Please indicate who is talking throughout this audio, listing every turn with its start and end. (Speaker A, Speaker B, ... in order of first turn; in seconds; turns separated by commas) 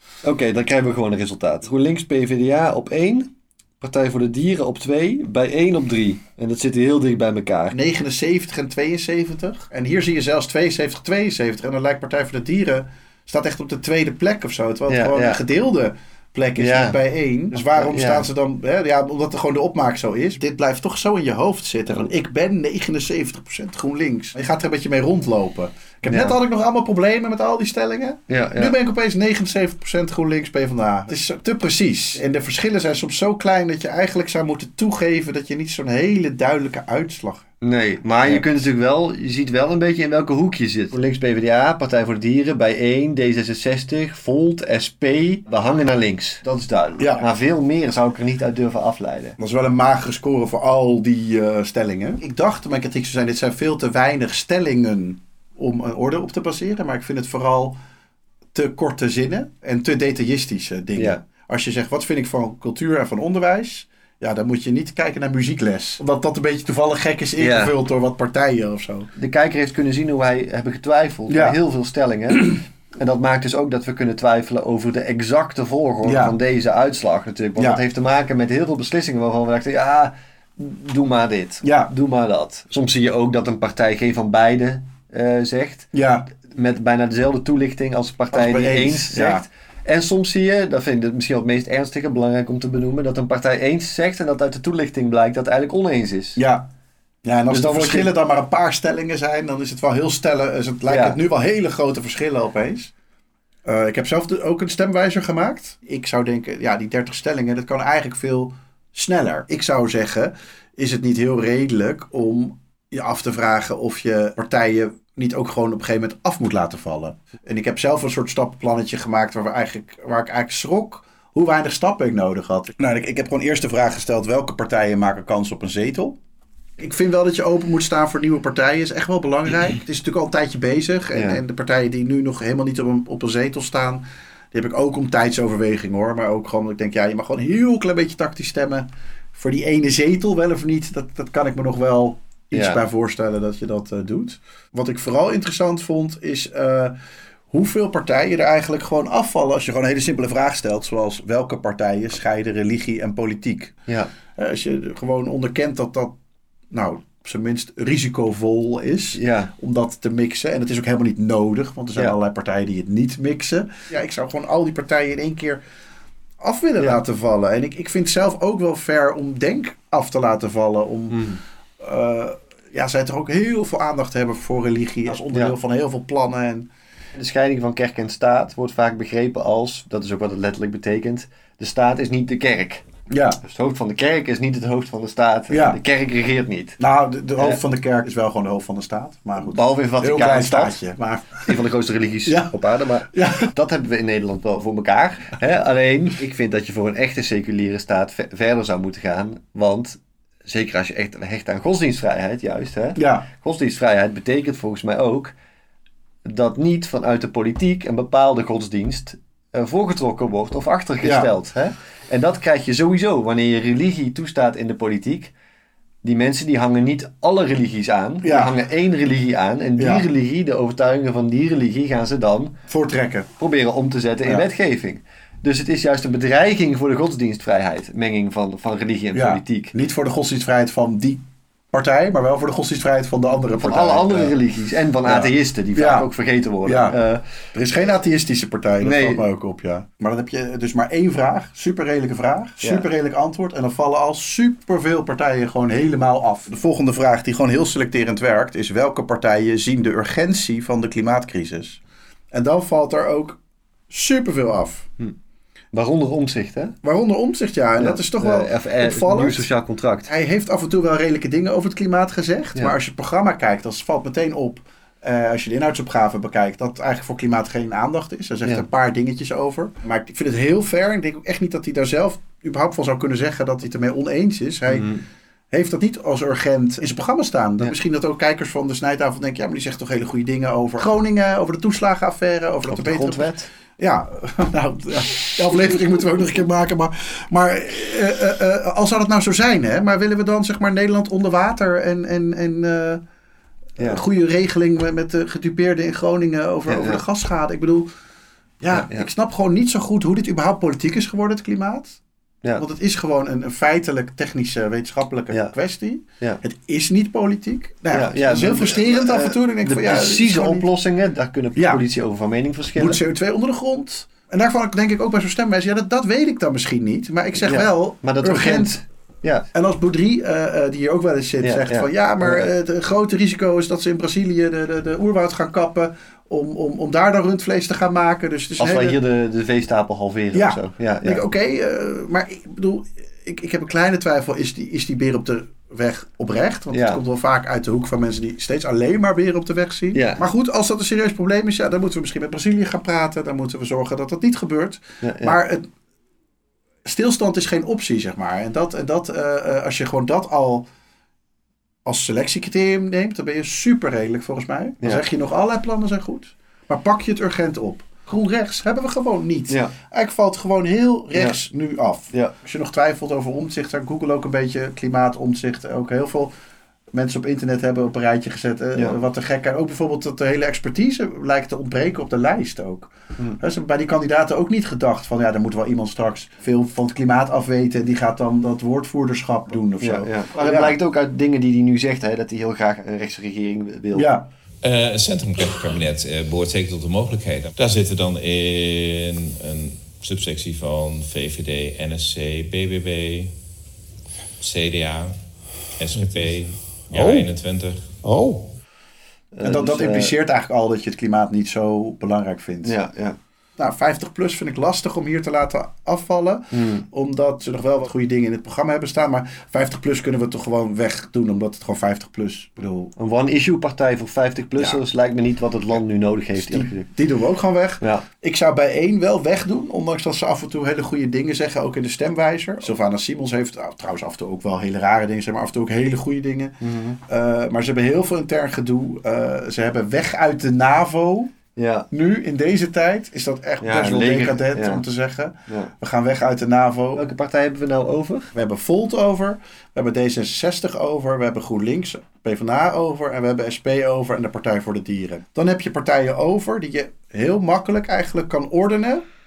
Speaker A: 0.2-7.8, Speaker B: 7.7-37.5, Speaker A: 14.9-15.4, Speaker A: 16.6-17.0, Speaker A: 17.5-18.3, Speaker A: 26.1-26.4, Speaker A: 28.3-28.7, Speaker A: 37.6-49.4, Speaker B: 47.0-47.3, Speaker B: 49.4-57.8, Speaker B: 58.5-69.1, Speaker A: 61.0-61.2, Speaker A: 67.4-67.7, Speaker A: 69.2-85.9, Speaker B: 71.3-71.6, Speaker B: 76.0-76.4, Speaker B: 77.6-77.8, Speaker B: 81.6-81.9, Speaker B: 85.9-86.3, Speaker A: 86.5-96.4, Speaker B: 88.3-89.5, Speaker B: 96.4-96.7, Speaker B: 97.2-102.9, Speaker A: 97.5-98.1, Speaker A: 100.9-101.2, Speaker B: 103.7-126.2, Speaker B: 126.8-147.0, Speaker A: 131.1-131.4, Speaker A: 142.5-142.8, Speaker B: 147.5-153.8, Speaker B: 154.4-156.2, Speaker B: 156.7-165.6, Speaker A: 159.2-159.5, Speaker B: 166.4-171.3, Speaker A: 171.1-171.4, Speaker B: 171.8-176.7, Speaker A: 175.3-175.6, Speaker A: 177.2-182.8, Speaker B: 183.1-183.4, Speaker A: 183.4-186.8, Speaker B: 185.5-185.8, Speaker B: 186.8-191.6, Speaker A: 189.4-190.8, Speaker A: 191.4-205.3, Speaker B: 192.3-192.6, Speaker B: 193.1-193.5, Speaker B: 203.0-203.3, Speaker A: 206.3-215.3, Speaker B: 211.0-211.3, Speaker A: 216.0-222.6, Speaker B: 218.2-218.6, Speaker B: 219.8-220.1, Speaker B: 222.7-223.3, Speaker A: 223.4-229.7, Speaker B: 229.1-234.4, Speaker A: 233.6-237.2, Speaker B: 235.1-236.1, Speaker B: 236.6-237.0, Speaker B: 237.5-251.8, Speaker A: 238.8-239.2, Speaker A: 242.6-242.9, Speaker B: 252.3-253.4, Speaker B: 253.9-254.9, Speaker A: 255.7-256.7, Speaker B: 256.8-259.5, Speaker A: 257.8-260.1, Speaker B: 260.1-274.9, Speaker A: 274.7-275.0, Speaker B: 275.5-293.0, Speaker A: 282.7-283.5, Speaker B: 293.8-297.9, Speaker A: 296.7-297.0, Speaker B: 298.6-302.0, Speaker A: 298.7-299.1, Speaker B: 302.6-310.7, Speaker A: 307.9-313.0, Speaker B: 311.6-311.8, Speaker B: 312.8-318.8, Speaker A: 317.4-319.5, Speaker B: 319.5-329.0, Speaker A: 321.4-322.5, Speaker A: 328.6-331.2, Speaker B: 330.3-345.7, Speaker A: 336.7-337.0, Speaker A: 339.9-340.2, Speaker A: 345.0-345.4, Speaker B: 346.9-350.7, Speaker B: 351.9-366.3, Speaker B: 366.9-380.8, Speaker A: 379.8-384.1, Speaker B: 383.9-384.3, Speaker C: 384.6-393.3, Speaker C: 394.4-398.0, Speaker A: 399.3-400.1, Speaker B: 399.4-402.8, Speaker A: 402.6-403.2, Speaker B: 403.6-412.9, Speaker A: 406.5-406.9, Speaker A: 413.0-416.9, Speaker B: 414.6-414.8, Speaker B: 416.4-426.6, Speaker A: 426.6-427.0, Speaker B: 427.1-431.3, Speaker A: 431.6-431.9, Speaker B: 431.9-437.1, Speaker A: 433.6-434.8, Speaker A: 437.0-438.3, Speaker B: 438.3-449.1